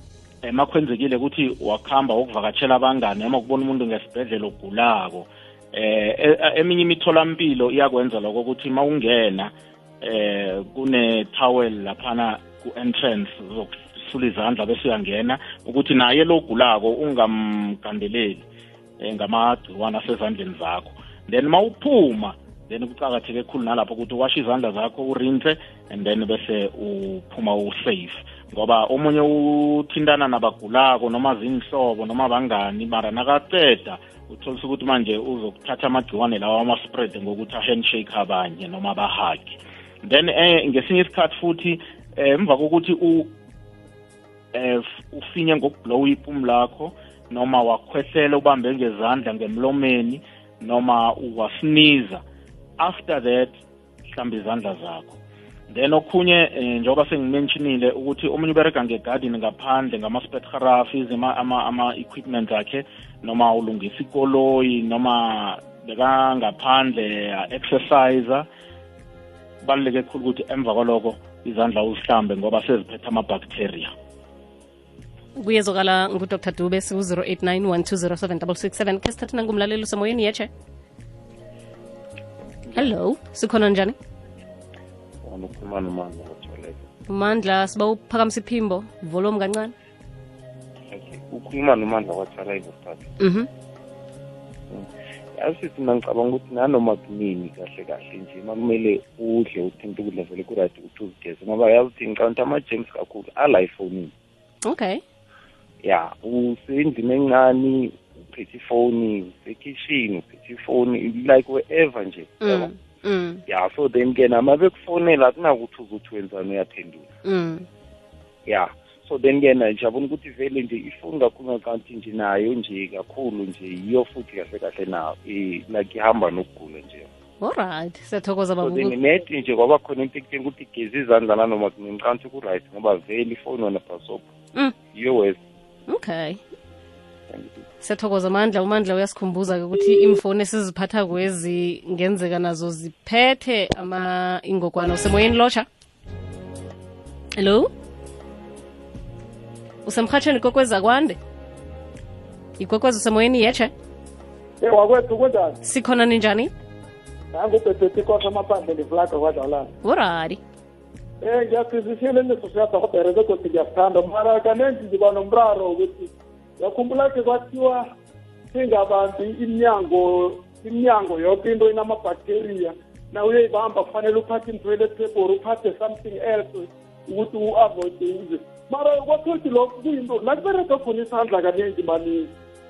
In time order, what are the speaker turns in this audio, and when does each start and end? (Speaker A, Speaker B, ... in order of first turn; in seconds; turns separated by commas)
Speaker A: 0.4-9.5, Speaker A: 10.0-18.4, Speaker A: 19.0-43.3, Speaker A: 44.5-52.2, Speaker A: 52.8-53.5, Speaker A: 54.1-55.2, Speaker A: 55.7-68.5, Speaker A: 69.6-73.9, Speaker B: 75.4-80.5, Speaker B: 82.7-84.0, Speaker C: 85.2-86.8, Speaker B: 87.1-89.7, Speaker C: 90.9-93.1, Speaker B: 93.2-93.5, Speaker C: 94.7-104.1, Speaker B: 104.7-105.0, Speaker C: 105.8-112.7, Speaker B: 112.4-113.4, Speaker C: 113.5-117.1, Speaker B: 117.2-117.7, Speaker C: 118.5-127.1, Speaker B: 127.4-128.9, Speaker C: 128.6-134.3, Speaker C: 134.9-135.4, Speaker B: 135.9-136.4, Speaker C: 137.3-137.6, Speaker B: 137.8-145.7, Speaker B: 147.4-147.7, Speaker B: 149.9-151.2, Speaker B: 152.6-153.7, Speaker D: 154.6-155.6, Speaker B: 155.6-156.5, Speaker D: 157.3-159.7, Speaker B: 159.8-160.4, Speaker D: 161.2-167.9, Speaker D: 168.5-182.3